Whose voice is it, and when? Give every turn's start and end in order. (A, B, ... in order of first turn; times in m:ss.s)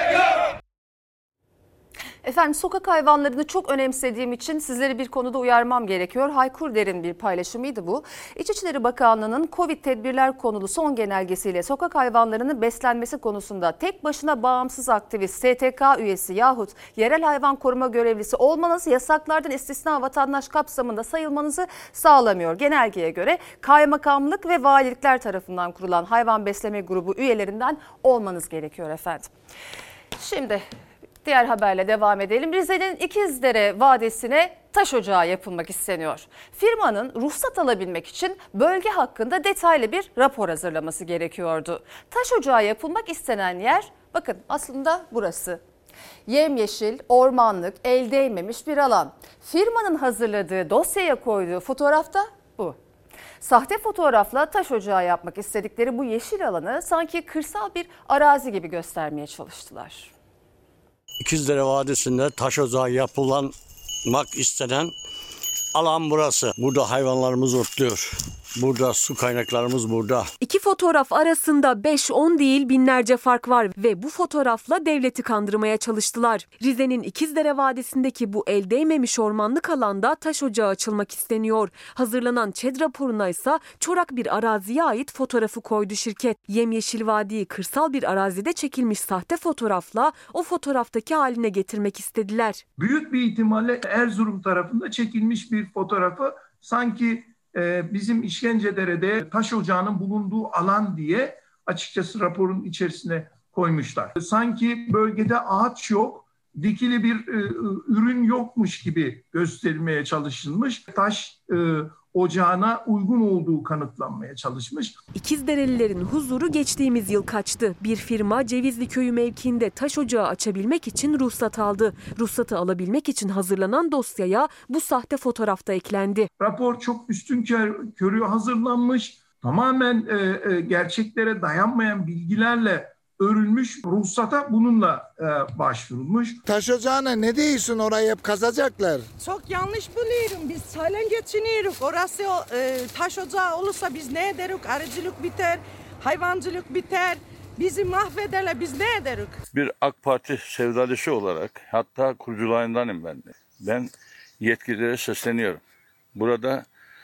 0:02.2-0:29.3 A
0:30.2-0:30.7 A
0:31.2-0:45.6 A
0:46.3-0:52.8 A
0:53.4-1:00.1 A
1:01.3-1:03.5 B
1:04.1-1:04.9 B
1:05.8-1:08.0 B
1:08.7-1:10.2 B
1:10.4-1:32.6 C
1:32.8-1:55.0 D
1:55.2-2:06.3 C
2:06.4-2:16.4 D
2:16.5-2:19.1 E
2:19.2-2:29.4 F
2:29.5-2:35.6 G
2:36.2-2:36.7 G